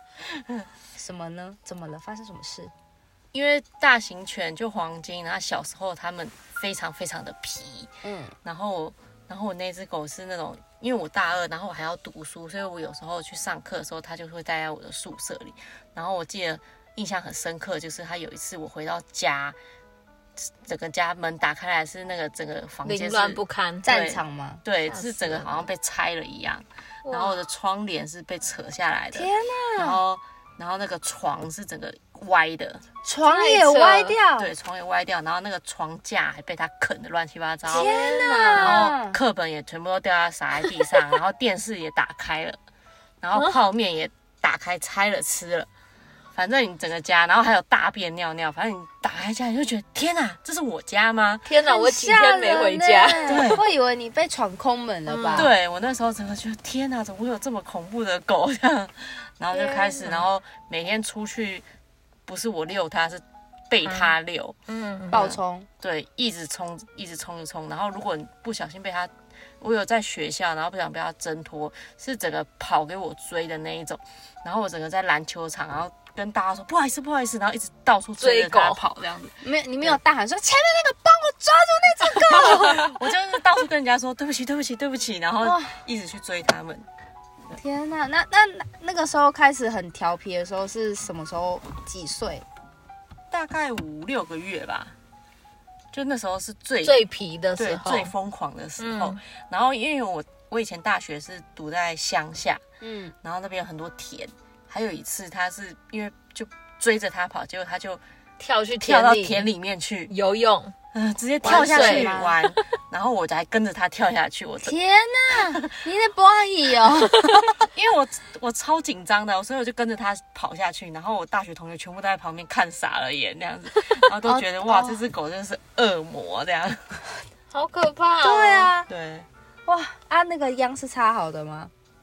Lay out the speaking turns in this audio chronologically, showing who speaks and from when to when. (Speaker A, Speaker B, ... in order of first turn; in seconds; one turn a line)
Speaker A: 0.2-0.7
Speaker B: 1.0-2.7
Speaker A: 3.3-19.6
Speaker B: 8.0-8.4
Speaker A: 20.4-32.9
Speaker C: 22.8-23.9
Speaker B: 23.8-24.6
Speaker C: 24.9-25.7
Speaker C: 27.1-27.4
Speaker B: 29.1-30.0
Speaker B: 33.0-34.5
Speaker C: 33.2-34.2
Speaker A: 34.4-42.6
Speaker B: 37.7-39.2
Speaker C: 37.7-38.9
Speaker A: 43.2-45.7
Speaker A: 46.3-51.5
Speaker C: 51.5-53.5
Speaker B: 51.6-55.5
Speaker A: 53.3-53.6
Speaker C: 55.1-55.5
Speaker A: 55.3-61.7
Speaker B: 59.5-60.1
Speaker A: 62.3-64.6
Speaker C: 63.9-64.1
Speaker C: 64.7-65.2
Speaker A: 65.1-80.0
Speaker B: 65.1-65.7
Speaker C: 78.2-78.8
Speaker B: 79.4-83.0
Speaker A: 82.1-86.9
Speaker B: 85.4-85.8
Speaker B: 87.5-92.5
Speaker A: 93.3-95.0
Speaker A: 95.9-97.0
Speaker C: 96.8-98.1
Speaker A: 97.6-102.6
Speaker C: 98.8-99.2
Speaker B: 102.8-103.2
Speaker A: 103.2-108.0
Speaker C: 108.4-109.5
Speaker A: 108.8-110.1
Speaker C: 110.1-110.7
Speaker A: 110.9-114.8
Speaker B: 111.4-112.3
Speaker C: 111.4-112.6
Speaker B: 114.6-117.5
Speaker A: 115.3-115.7
Speaker A: 117.6-127.0
Speaker B: 124.3-125.0
Speaker C: 127.5-128.7
Speaker B: 128.2-128.9
Speaker A: 128.9-129.3
Speaker B: 129.7-131.7